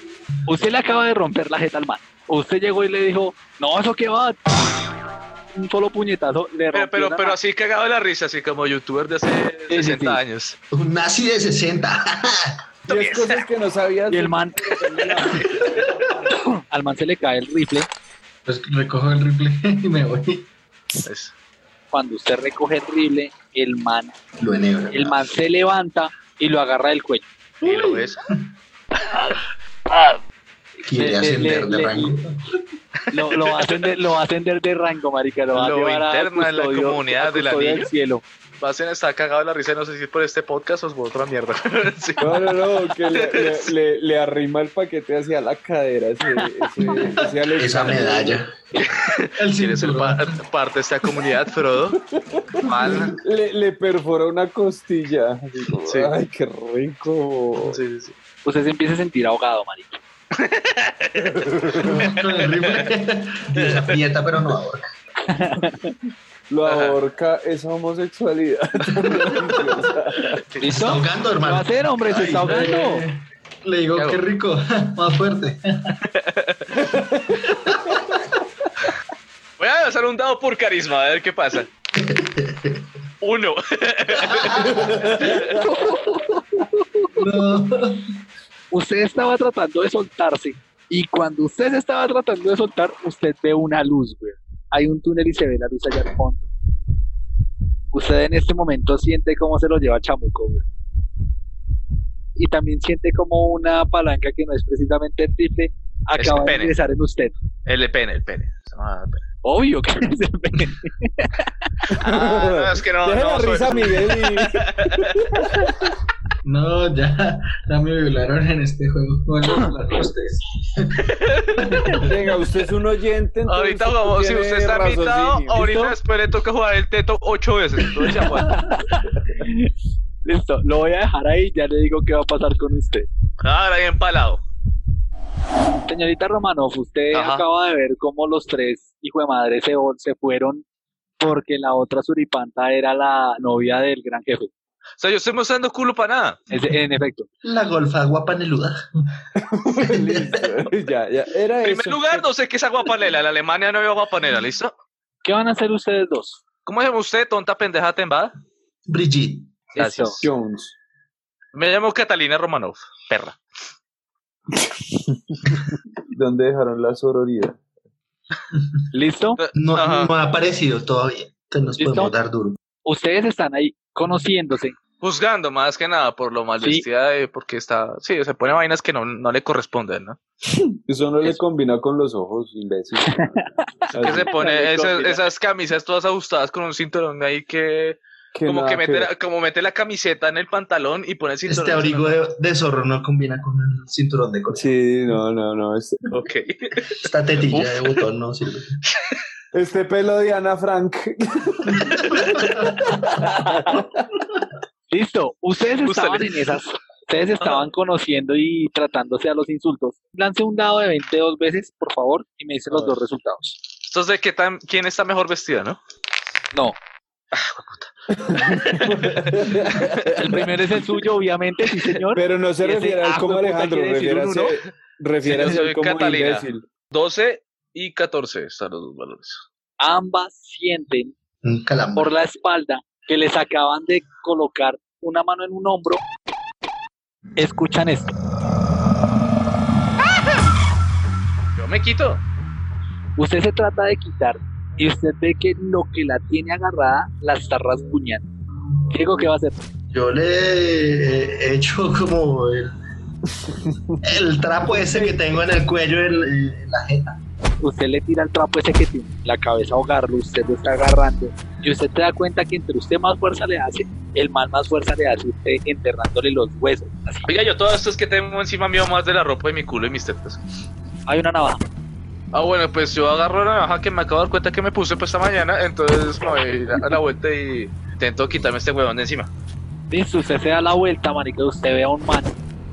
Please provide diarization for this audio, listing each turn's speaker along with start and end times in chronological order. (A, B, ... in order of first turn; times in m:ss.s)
0:00.5-0:04.6 A
0:05.5-0:07.4 A
0:06.7-0:10.6 B
0:09.7-0:10.2 A
0:10.7-0:12.6 C
0:12.9-0:13.4 B
0:12.9-0:15.4 D
0:14.1-0:14.6 A
0:15.3-0:15.8 B
0:16.5-0:17.9 A
0:18.5-0:20.5 E
0:21.0-0:21.3 B
0:21.9-0:24.1 A
0:24.4-0:25.4 C
0:24.9-0:27.3 A
0:27.6-0:28.2 B
0:27.6-0:28.4 E
0:29.9-0:30.2 B
0:30.8-0:32.2 A
0:30.9-0:32.3 C
0:33.1-0:38.2 A
0:33.3-0:33.9 B
0:35.5-0:37.9 B
0:38.6-0:43.7 B
0:42.2-0:48.4 D
0:46.9-0:47.5 E
0:47.6-0:48.5 C
0:48.8-0:52.0 B
0:49.4-0:50.4 E
0:52.2-0:52.4 D
0:52.7-0:53.2 B
0:52.8-0:53.1 E
0:53.2-0:57.8 D
0:55.8-0:56.1 B
0:57.6-0:58.1 B
0:58.4-1:00.0 A
1:00.3-1:02.9 B
1:01.2-1:01.8 D
1:02.0-1:04.8 C
1:02.1-1:02.7 E
1:03.6-1:04.0 B
1:05.3-1:05.9 A
1:06.5-1:10.3 D
1:06.6-1:07.0 B
1:09.0-1:09.9 E
1:10.6-1:13.0 A
1:10.7-1:12.4 C
1:12.1-1:16.0 E
1:14.0-1:14.2 B
1:16.1-1:16.7 B
1:17.5-1:18.2 E
1:19.6-1:21.7 B
1:22.0-1:22.8 C
1:23.2-1:25.6 B
1:24.3-1:25.0 C
1:25.6-1:26.6 A
1:27.2-1:27.9 E
1:27.2-1:27.6 C
1:28.7-1:36.4 A
1:37.9-1:40.6 A
1:42.4-1:47.3 A
1:46.2-1:46.8 B
1:47.7-1:49.2 B
1:49.4-1:51.4 A
1:51.9-1:55.2 B
1:52.0-1:54.6 D
1:56.4-2:02.3 E
2:02.0-2:05.7 D
2:03.5-2:08.6 B
2:05.5-2:06.0 A
2:08.3-2:09.7 A
2:10.2-2:13.1 A
2:13.4-2:14.4 B
2:15.9-2:20.6 A
2:17.1-2:17.4 B
2:21.2-2:24.5 A
2:25.0-2:26.4 B
2:26.5-2:27.3 A
2:27.4-2:28.8 C
2:29.5-2:32.3 D
2:29.8-2:30.4 C
2:31.6-2:34.7 B
2:35.2-2:36.4 A
2:36.7-2:38.3 B
2:38.9-2:39.5 C
2:39.8-2:40.2 A
2:39.8-2:40.3 B
2:40.2-2:40.7 D
2:41.5-2:43.4 B
2:46.1-2:47.6 D
2:48.9-2:49.4 A
2:49.4-2:50.1 B
2:49.6-2:52.6 C
2:51.8-2:52.1 A
2:52.8-2:54.8 A
2:55.0-3:00.2 B
2:56.6-2:56.8 A
3:00.9-3:04.3 D
3:03.2-3:03.7 A
3:03.9-3:12.2 B
3:04.3-3:05.2 A
3:08.3-3:09.1 D
3:11.5-3:14.7 C
3:14.5-3:16.0 D
3:16.1-3:18.0 B
3:17.0-3:18.7 C
3:19.5-3:21.7 D
3:23.2-3:23.8 D
3:23.3-3:23.5 A
3:24.9-3:33.6 A
3:25.8-3:26.4 B
3:33.8-3:35.8 B
3:37.3-3:40.4 B
3:38.3-3:40.4 D
3:40.1-3:44.6 A
3:42.1-3:46.7 D
3:45.2-3:49.5 B
3:49.8-3:51.1 A
3:51.4-3:52.1 C
3:52.0-3:56.0 A
3:57.4-3:58.2 A
4:01.6-4:02.2 B
4:03.2-4:08.3 A
4:08.9-4:09.6 A
4:09.9-4:12.8 C
4:14.0-4:17.2 C
4:17.6-4:27.3 A
4:27.3-4:30.4 B
4:31.1-4:31.6 A
4:32.3-4:39.3 B
4:39.9-4:42.4 A